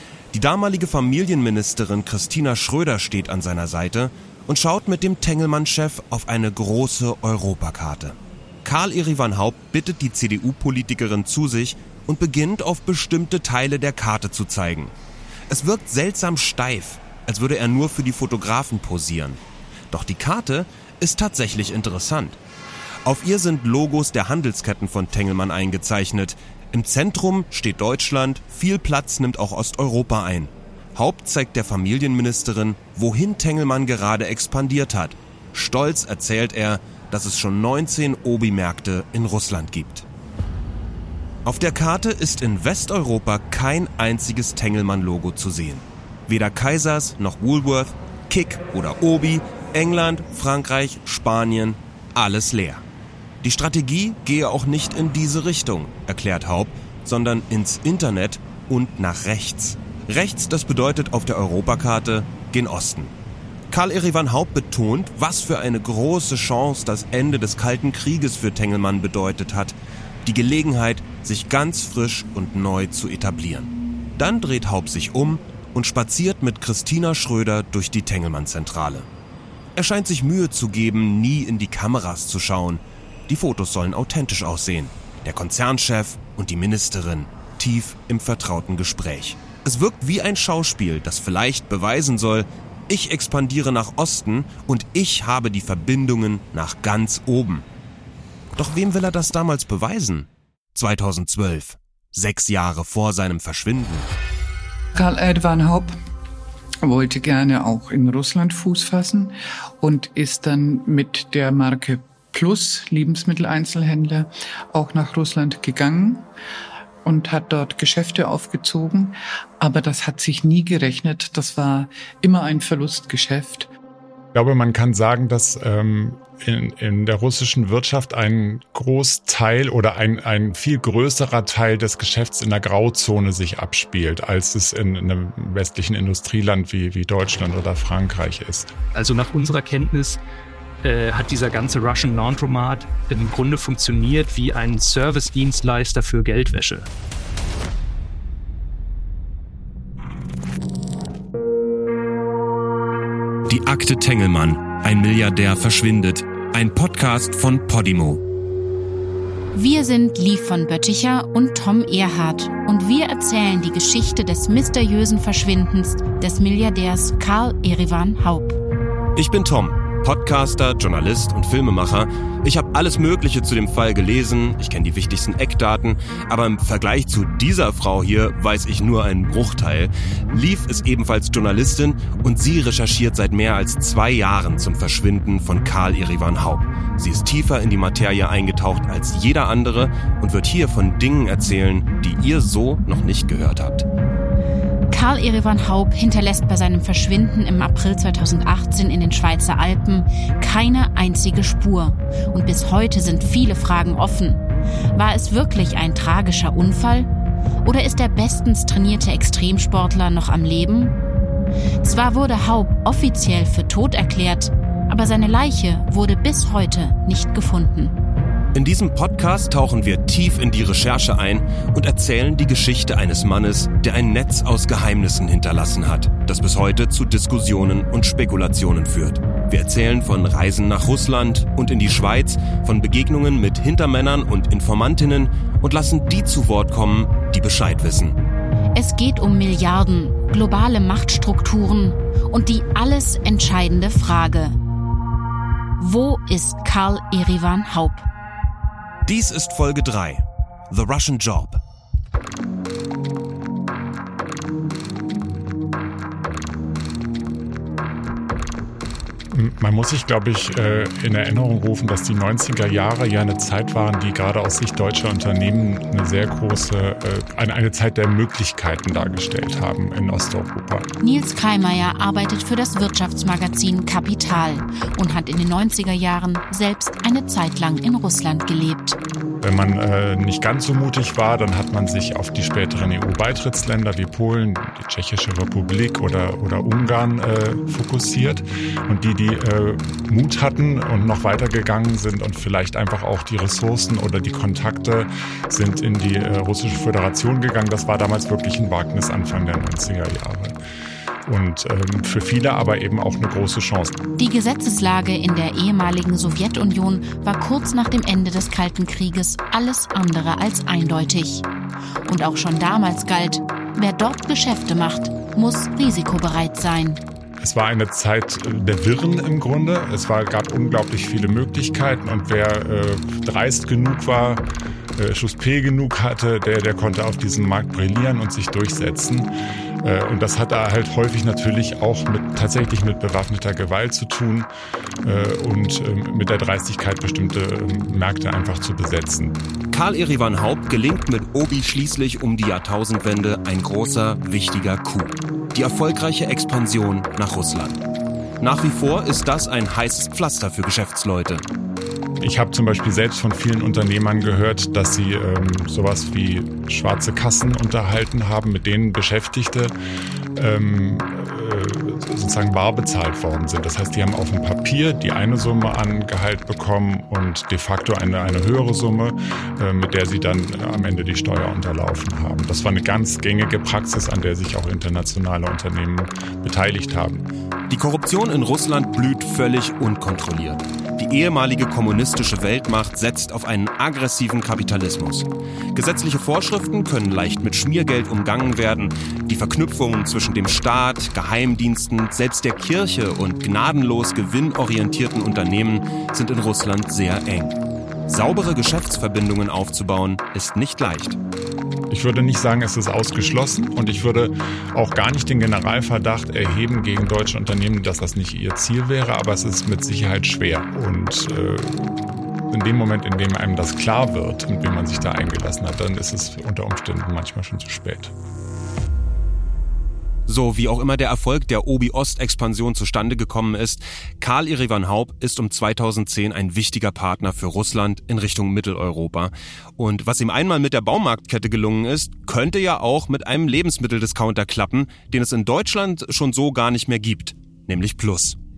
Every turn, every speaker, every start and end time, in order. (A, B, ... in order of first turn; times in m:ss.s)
0:00.3-0:14.9 A
0:15.5-0:22.4 A
0:23.0-0:40.0 A
0:41.4-0:52.8 A
0:53.4-1:03.1 A
1:03.7-1:19.1 A
1:19.8-1:37.6 A
1:38.6-1:44.2 A
1:45.0-1:45.9 B
1:46.8-1:56.3 B
1:57.0-2:03.7 B
2:04.3-2:18.7 C
2:18.9-2:20.2 D
2:20.8-2:26.9 D
2:33.4-2:38.2 A
2:39.5-2:48.6 E
2:49.2-3:13.8 A
3:14.9-3:24.4 E
3:24.9-3:27.1 E
3:27.6-3:31.0 E
3:31.8-3:38.0 E
3:38.5-3:58.2 A
3:58.7-4:04.6 E
4:05.8-4:08.1 E
4:09.0-4:11.6 A
4:19.3-4:30.9 C
4:31.0-4:39.0 E
4:39.4-5:00.6 C
5:01.2-5:04.0 C
5:04.2-5:11.4 E
5:12.0-5:17.0 E
5:17.4-5:24.4 C
5:25.0-5:29.3 C
5:29.8-5:34.5 C
5:35.0-5:39.4 C
5:39.7-5:47.8 A
5:48.4-5:51.4 A
5:52.2-5:59.7 C
6:00.4-6:17.3 C
6:17.7-6:41.2 A
6:41.9-6:58.1 C
7:00.3-7:18.4 A